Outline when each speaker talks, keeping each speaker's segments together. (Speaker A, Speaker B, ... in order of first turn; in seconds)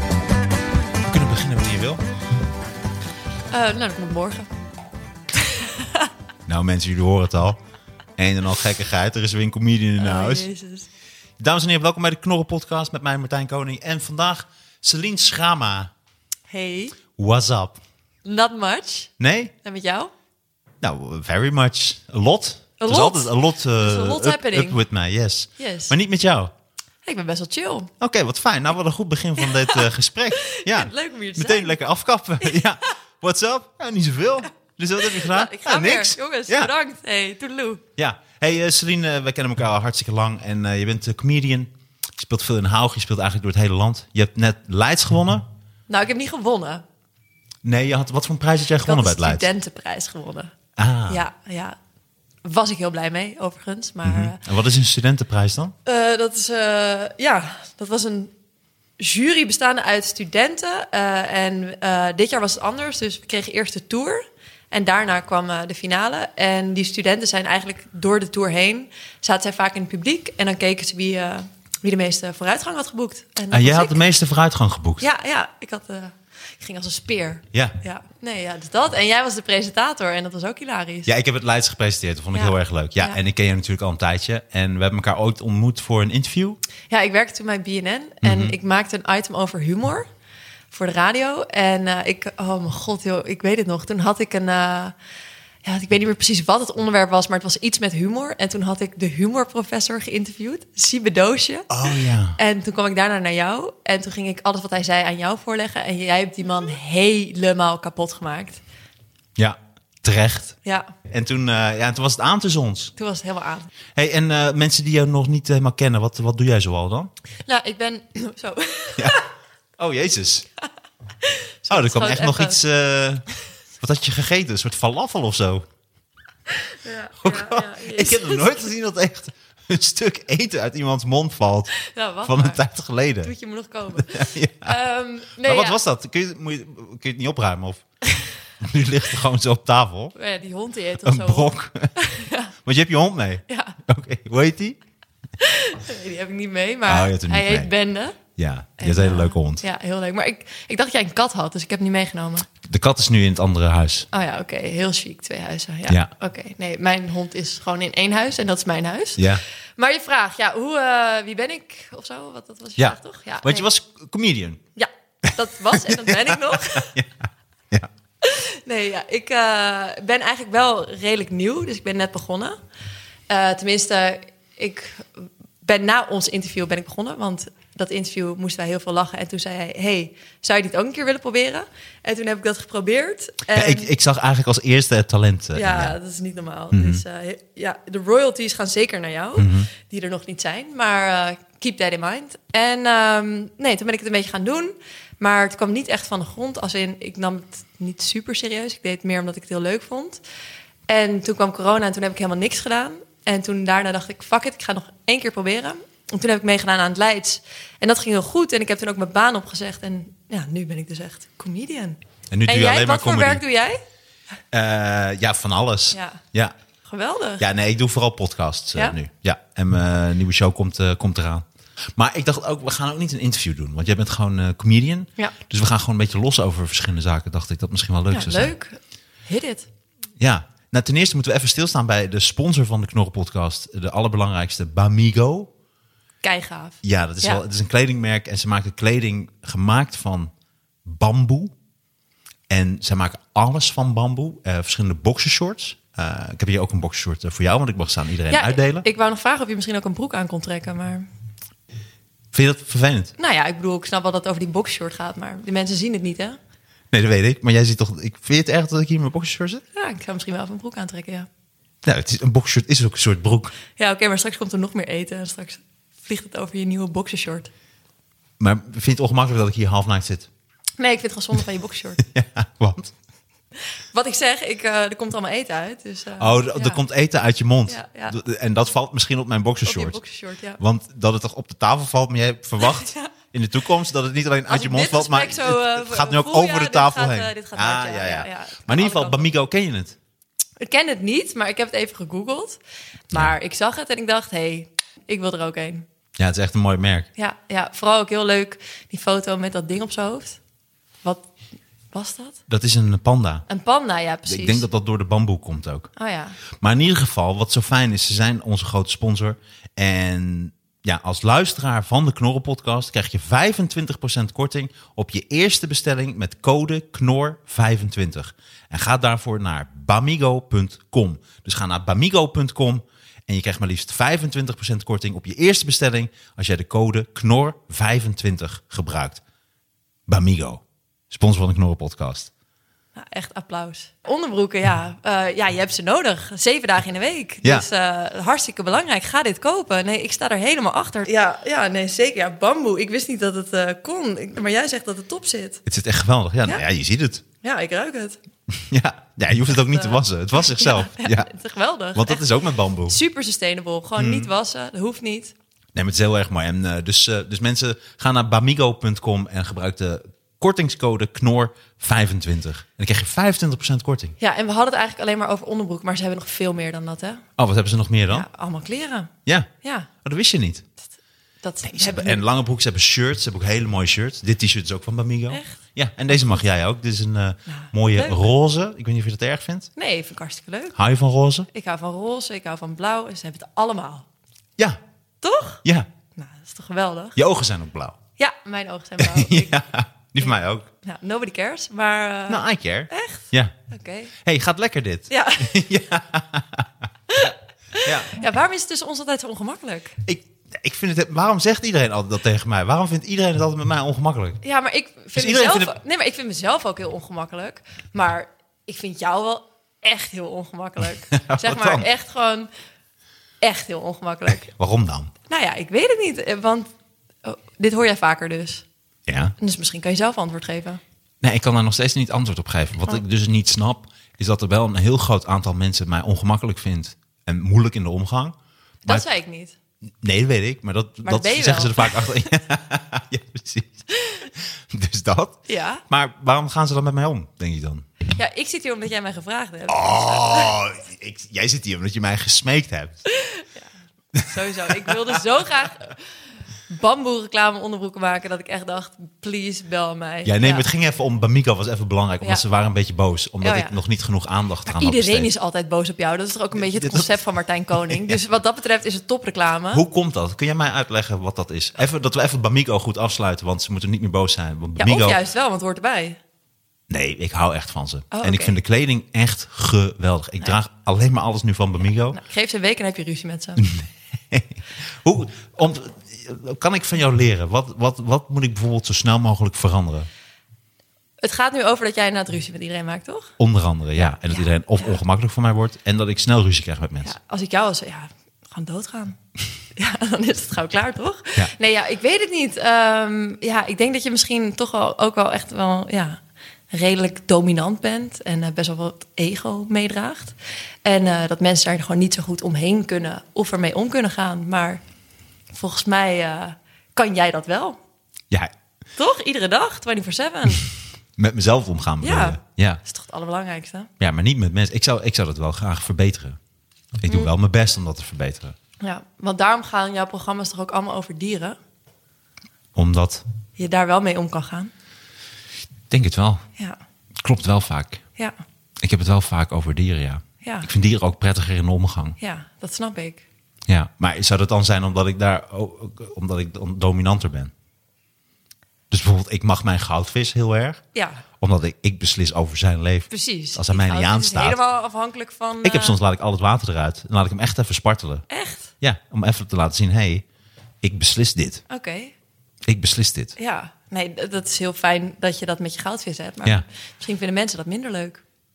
Speaker A: 1.0-2.0, 6.5-7.6, 8.2-10.5, 11.4-15.9, 17.1-17.8, 19.2-19.5, 20.8-26.5, 28.0-36.7, 38.0-45.5, 47.6-49.5, 50.8-51.2, 54.0-55.7, 73.5-75.0, 81.0-86.6, 88.2-88.5, 101.7-102.4, 109.3-110.5, 111.1-112.9, 113.9-117.1, 119.8-120.5, 121.7-123.2, 123.8-125.7, 127.2-133.3, 134.0-134.8, 135.4-137.8, 138.6-140.1, 141.0-141.9, 142.6-144.8, 146.9-147.7, 148.3-149.6, 152.6-154.1, 159.2-159.4, 162.8-164.6, 165.2-167.9, 183.5-185.9, 186.7-187.0, 189.4-189.7, 212.3-213.4, 214.5-216.5, 217.4-228.5, 230.2-235.5, 236.8-240.3, 240.8-241.5, 242.5-248.8, 252.3-253.1, 256.9-259.6, 261.8-263.5, 268.4-270.3, 272.0-272.9, 276.2-280.0, 280.6-289.9, 296.2-297.1, 302.5-303.4, 304.2-305.9, 306.5-329.2, 330.1-332.3, 345.6-347.2, 348.5-351.3, 351.9-353.0, 354.0-354.3, 355.7-364.2, 367.4-368.3, 370.0-370.6, 371.7-379.7, 380.7-381.5, 387.1-388.0, 389.0-390.7, 392.3-393.5, 394.2-398.1, 400.0-404.4, 405.1-405.7, 411.1-411.9, 414.3-415.1, 419.1-419.3, 421.2-428.4, 430.0-437.9, 439.7-443.0, 444.1-445.2, 450.2-455.3, 456.6-457.1, 457.8-458.2, 459.7-465.2, 466.9-472.2, 473.6-480.1, 483.4-487.1, 511.2-512.8, 514.0-516.4, 517.0-518.5, 522.7-523.2, 525.9-526.4, 527.2-528.0, 528.8-532.2, 533.7-537.5, 538.9-540.8, 541.4-544.6, 545.6-548.2, 548.8-550.2, 550.8-551.6, 552.6-553.3
Speaker B: 3.5-4.5, 5.4-6.1, 10.0-10.9, 16.5-17.0, 18.2-20.1, 22.8-24.8, 25.6-25.9, 27.0-27.9, 29.4-31.8, 35.0-37.8, 45.9-46.8, 48.8-50.5, 51.1-51.8, 52.4-54.4, 55.8-58.3, 59.0-74.0, 75.0-81.1, 82.3-83.2, 86.9-90.1, 90.7-94.9, 95.6-108.6, 110.6-110.9, 113.0-113.7, 117.5-119.3, 121.2-122.6, 126.5-128.7, 131.8-132.6, 133.2-135.8, 140.1-142.5, 143.5-143.8, 145.4-148.2, 148.8-152.5, 154.1-163.7, 164.8-166.9, 168.2-172.6, 173.3-183.9, 185.5-200.2, 200.9-213.8, 215.9-216.2, 216.8-217.4, 228.1-229.7, 236.2-237.4, 248.3-251.1, 253.2-256.4, 259.7-261.3, 263.8-267.5, 270.8-272.0, 273.9-276.8, 277.7-278.2, 279.6-280.6, 282.6-283.1, 284.5-289.3, 290.6-292.6, 293.1-295.8, 297.1-300.4, 301.9-302.4, 303.5-304.6, 305.9-306.4, 332.9-345.6, 347.4-348.2, 349.7-352.2, 352.9-355.3, 364.2-367.2, 368.1-369.9, 371.4-372.2, 375.3-375.6, 377.5-378.3, 379.8-380.7, 381.5-384.1, 385.2-385.6, 386.2-387.2, 388.2-389.6, 390.8-394.1, 395.1-395.6, 397.1-400.0, 404.4-412.5, 413.4-414.5, 415.3-416.7, 417.2-418.6, 419.4-420.8, 428.9-429.6, 431.0-432.0, 433.9-434.2, 435.5-435.8, 438.1-440.6, 443.1-443.7, 444.2-446.0, 446.7-450.6, 453.4-453.8, 454.6-459.8, 464.8-466.2, 468.1-468.6, 472.1-473.7, 481.2-483.3, 484.0-485.0, 487.0-489.2, 489.8-504.8, 505.5-507.8, 509.0-510.7, 512.0-513.9, 518.8-521.6, 523.6-524.7, 530.4-530.7, 532.2-533.2, 540.9-541.2, 543.1-546.0, 548.3-548.7, 551.7-552.1, 553.4-558.2